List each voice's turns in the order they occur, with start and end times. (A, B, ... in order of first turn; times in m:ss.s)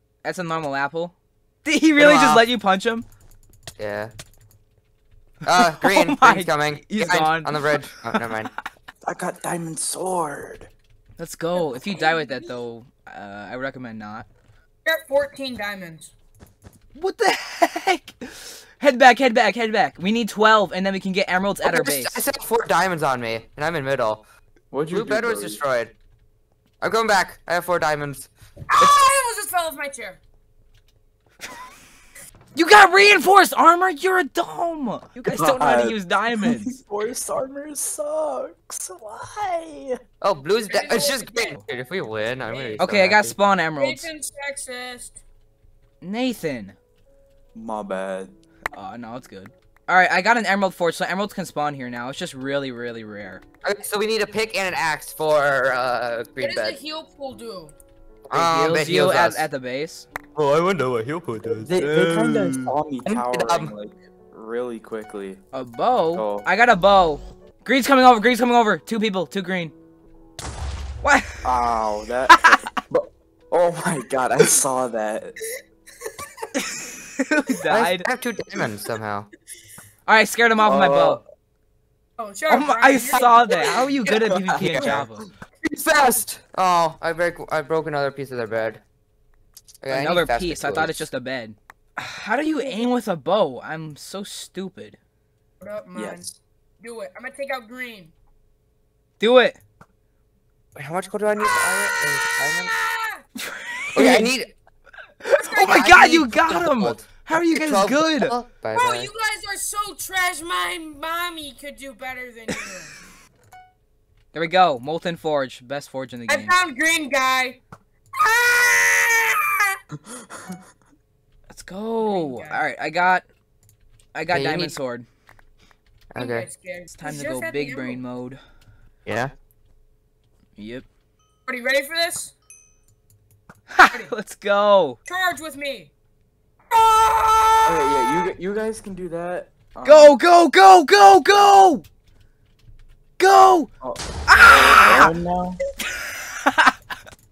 0:00.2-0:03.1 A
0:02.0-0:02.4 B
0:03.8-0:04.1 B
0:05.5-0:08.5 B
0:05.5-0:08.2 A
0:09.0-0:10.7 C
0:11.2-0:14.3 A
0:11.6-0:12.5 D
0:14.8-0:16.1 D
0:17.0-0:22.2 A
0:21.6-0:24.3 B
0:24.7-0:25.6 C
0:24.9-0:25.9 B
0:26.8-0:28.9 B
0:28.7-0:30.2 D
0:32.6-0:36.8 A
0:35.3-0:40.0 C
0:40.2-0:43.4 B
0:40.7-0:41.6 D
0:42.5-0:42.8 D
0:42.8-0:44.1 A
0:43.8-0:45.2 D
0:46.0-0:46.8 A
0:47.6-0:48.3 C
0:48.7-0:53.4 A
0:53.6-0:56.8 B
0:56.4-0:57.8 D
0:58.3-0:59.5 B
0:58.3-1:00.1 A
1:00.4-1:01.7 B
1:01.6-1:05.4 C
1:01.8-1:02.2 A
1:03.0-1:03.7 B
1:05.5-1:09.7 A
1:06.1-1:06.5 C
1:11.0-1:11.4 A
1:11.4-1:15.4 C
1:12.4-1:12.6 A
1:16.6-1:18.0 A
1:17.7-1:19.3 B
1:20.1-1:21.2 A
1:20.6-1:21.2 C
1:22.2-1:23.9 D
1:22.5-1:25.3 A
1:24.1-1:25.0 B
1:24.6-1:25.1 C
1:25.6-1:28.8 B
1:29.8-1:31.1 B
1:29.9-1:35.0 A
1:32.5-1:32.9 D
1:35.6-1:38.1 D
1:36.0-1:36.3 C
1:39.2-1:39.6 A
1:40.8-1:42.7 B
1:42.5-1:43.2 D
1:44.0-1:44.3 A
1:44.0-1:44.5 B
1:45.2-1:48.3 A
1:45.6-1:49.1 B
1:48.7-1:53.0 D
1:54.3-1:56.6 A
1:56.3-1:57.6 D
1:58.2-1:59.8 D
2:00.1-2:00.3 C
2:01.5-2:03.2 A
2:02.0-2:02.6 D
2:04.1-2:05.1 A
2:04.3-2:04.8 B
2:06.1-2:06.5 B
2:06.2-2:08.0 D
2:06.9-2:08.4 A
2:09.1-2:09.3 B
2:10.6-2:10.9 A
2:11.5-2:12.3 D
2:13.7-2:15.0 A
2:13.9-2:14.1 D
2:15.1-2:15.9 D
2:16.7-2:18.3 D
2:17.6-2:20.2 C
2:19.8-2:21.8 A
2:23.2-2:23.7 A
2:23.8-2:25.6 C
2:24.3-2:25.1 A
2:26.4-2:26.7 A